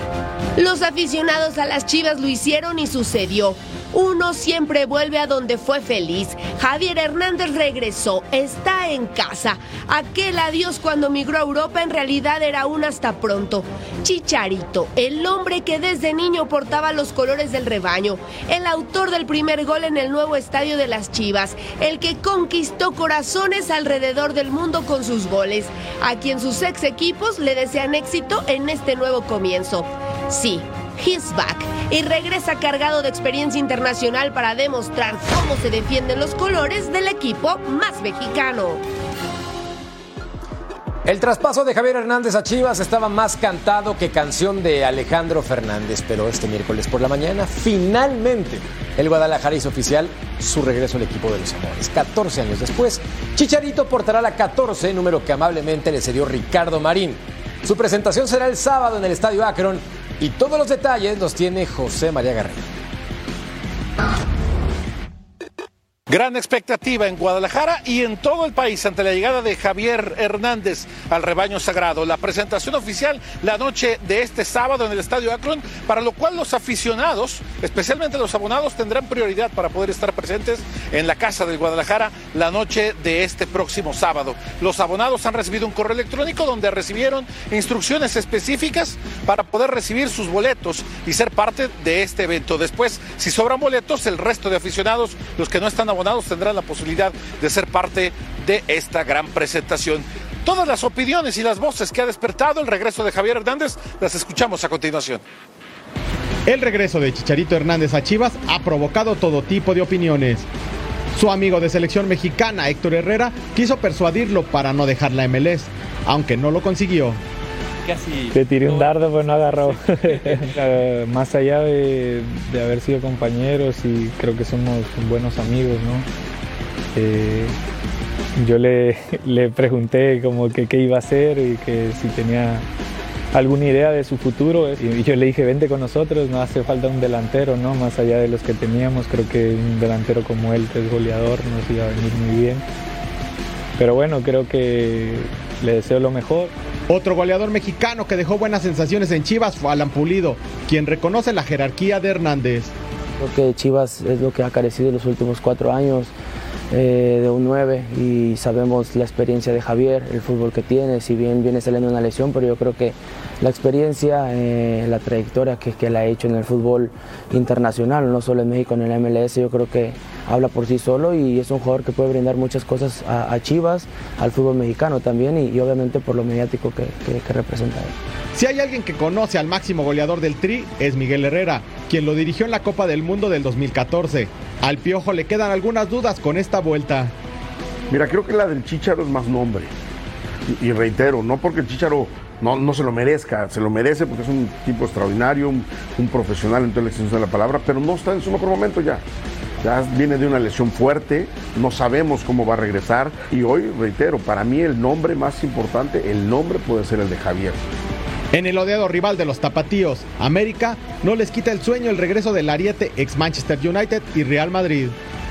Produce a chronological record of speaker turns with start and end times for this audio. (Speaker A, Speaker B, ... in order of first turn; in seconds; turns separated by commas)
Speaker A: 0.6-38.8, Speaker B: 41.1-62.6, Speaker C: 66.1-105.2, Speaker D: 106.5-110.5, Speaker D: 111.1-117.2, Speaker E: 118.3-126.1, Speaker E: 126.9-127.6, Speaker E: 128.4-132.7, Speaker E: 133.3-142.6, Speaker E: 143.8-146.5, Speaker D: 146.9-152.7, Speaker F: 153.2-156.1, Speaker F: 156.7-177.9, Speaker D: 178.3-187.1, Speaker G: 187.9-189.7, Speaker G: 190.5-199.0, Speaker G: 199.6-207.6, Speaker D: 208.3-214.9